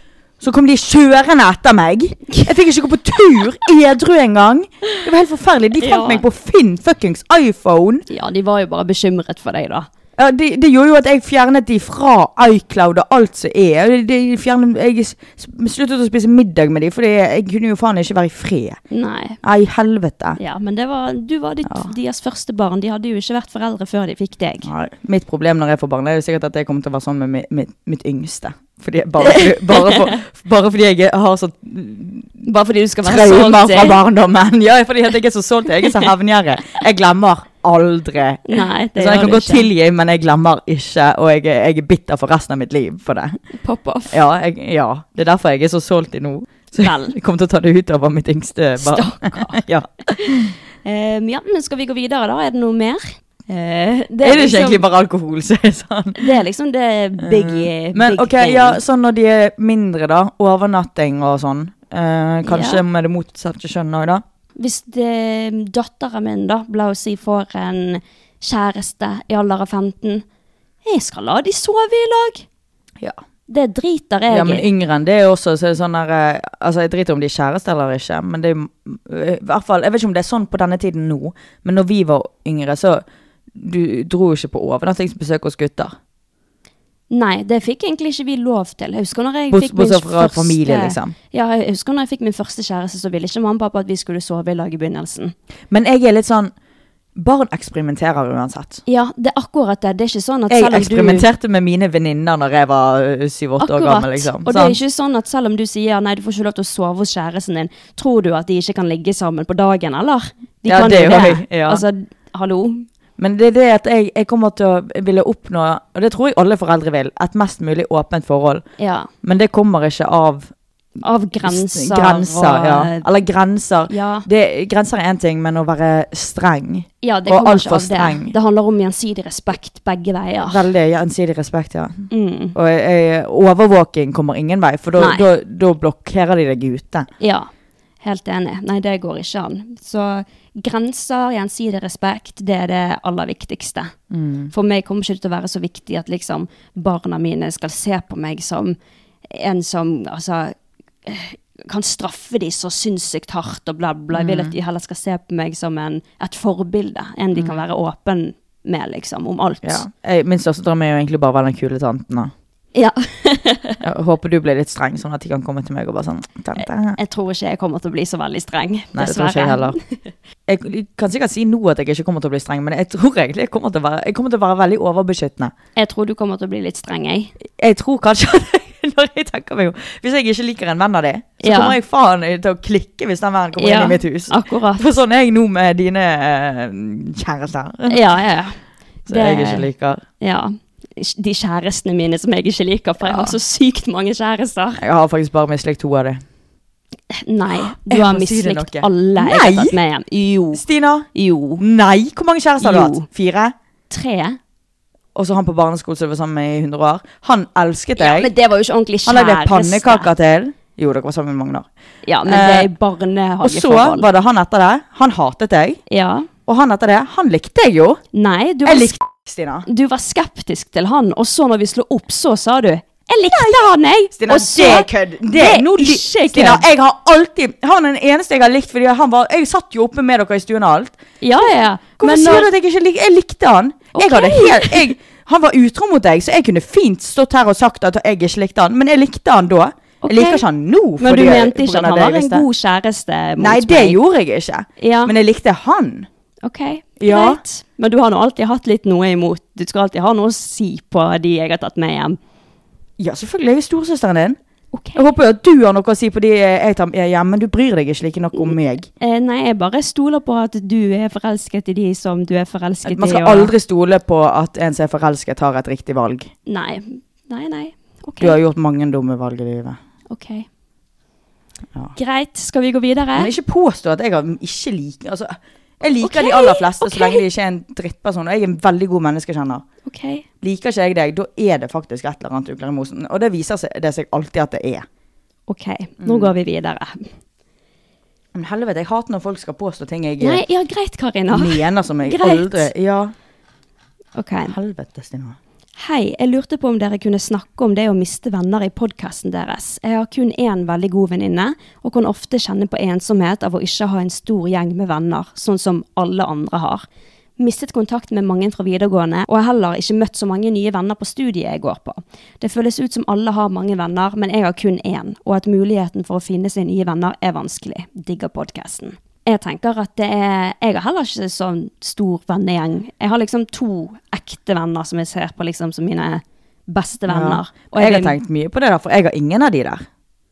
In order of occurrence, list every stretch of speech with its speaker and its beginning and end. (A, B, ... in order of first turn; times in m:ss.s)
0:00.4-0:08.0 A
0:05.8-0:06.2 B
0:08.1-0:09.9 B
0:10.2-0:18.8 A
0:18.9-0:19.4 B
0:19.4-0:20.4 A
0:20.4-0:24.7 B
0:21.6-0:21.9 A
0:24.6-0:32.4 A
0:29.2-0:30.1 B
0:32.4-0:34.0 B
0:33.0-0:38.4 A
0:38.5-0:39.7 B
0:38.9-0:43.4 A
0:43.6-0:44.2 B
0:44.1-0:50.5 A
0:46.7-0:47.1 B
0:48.8-0:54.8 B
0:54.2-0:56.3 A
0:56.2-0:58.8 B
0:57.2-1:04.2 A
1:02.4-1:02.8 B
1:04.6-1:10.2 B
1:10.8-1:12.4 B
1:13.5-1:14.7 B
1:14.3-1:26.0 A
1:27.1-1:35.3 B
1:29.5-1:31.2 A
1:35.7-1:36.5 A
1:37.2-1:38.8 A
1:38.9-1:41.2 B
1:40.5-1:44.8 A
1:43.6-1:52.8 B
1:50.6-1:51.8 A
1:53.2-1:58.6 A
1:58.8-1:59.1 B
1:59.2-2:00.5 A
2:01.0-2:03.1 B
2:01.4-2:08.3 A
2:03.9-2:04.2 B
2:07.0-2:10.6 B
2:10.4-2:17.1 A
2:12.1-2:12.6 B
2:15.0-2:15.2 B
2:17.2-2:17.5 B
2:18.0-2:23.9 B
2:24.1-2:24.5 A
2:24.5-2:28.8 B
2:29.3-2:39.8 B
2:34.1-2:34.5 A
2:39.6-2:42.3 A
2:42.7-2:43.8 B
2:43.8-2:47.0 A
2:46.6-2:49.8 B
2:48.9-2:49.8 A
2:50.5-2:55.5 A
2:55.8-2:57.3 B
2:57.5-3:08.2 A
3:01.4-3:01.8 B
3:03.6-3:04.9 B
3:07.9-3:09.7 B
3:09.1-3:10.0 A
3:10.2-3:14.8 B
3:13.0-3:13.3 A
3:14.8-3:16.2 A
3:17.1-3:20.6 B
3:17.5-3:19.8 A
3:20.5-3:23.5 A
3:21.1-3:21.6 B
3:22.6-3:23.1 B
3:23.9-3:24.4 B
3:25.1-3:28.3 A
3:28.0-3:30.1 B
3:29.0-3:31.7 A
3:32.0-3:34.1 B
3:32.2-3:32.7 A
3:33.4-3:35.8 A
3:35.9-3:36.3 B
3:36.5-3:38.0 A
3:38.1-3:39.0 B
3:38.6-3:39.7 A
3:39.7-3:46.6 B
3:43.2-3:51.5 A
3:51.2-3:52.5 B
3:52.0-4:02.4 A
3:53.9-3:54.9 B
4:00.0-4:00.4 B
4:01.0-4:04.0 B
4:03.4-4:06.1 A
4:04.8-4:05.1 B
4:06.4-4:12.2 B
4:07.0-4:07.4 A
4:13.0-4:14.4 A
4:14.7-4:15.0 B
4:14.9-4:18.9 A
4:18.3-4:23.5 B
4:22.8-4:26.3 A
4:26.5-4:28.4 B
4:28.2-4:29.8 A
4:30.1-4:30.5 B
4:31.9-4:33.3 B
4:33.2-4:39.6 A
4:36.0-4:37.2 B
4:39.8-4:40.2 B
4:40.4-4:44.8 A
4:45.5-4:47.1 B
4:46.0-4:46.3 A
4:48.3-4:50.4 A
4:50.2-4:52.7 B
4:51.3-4:53.1 A
4:54.2-4:54.5 B
4:54.5-4:55.4 A
4:55.8-5:06.8 B
5:07.4-5:28.2 B
5:27.1-5:29.9 A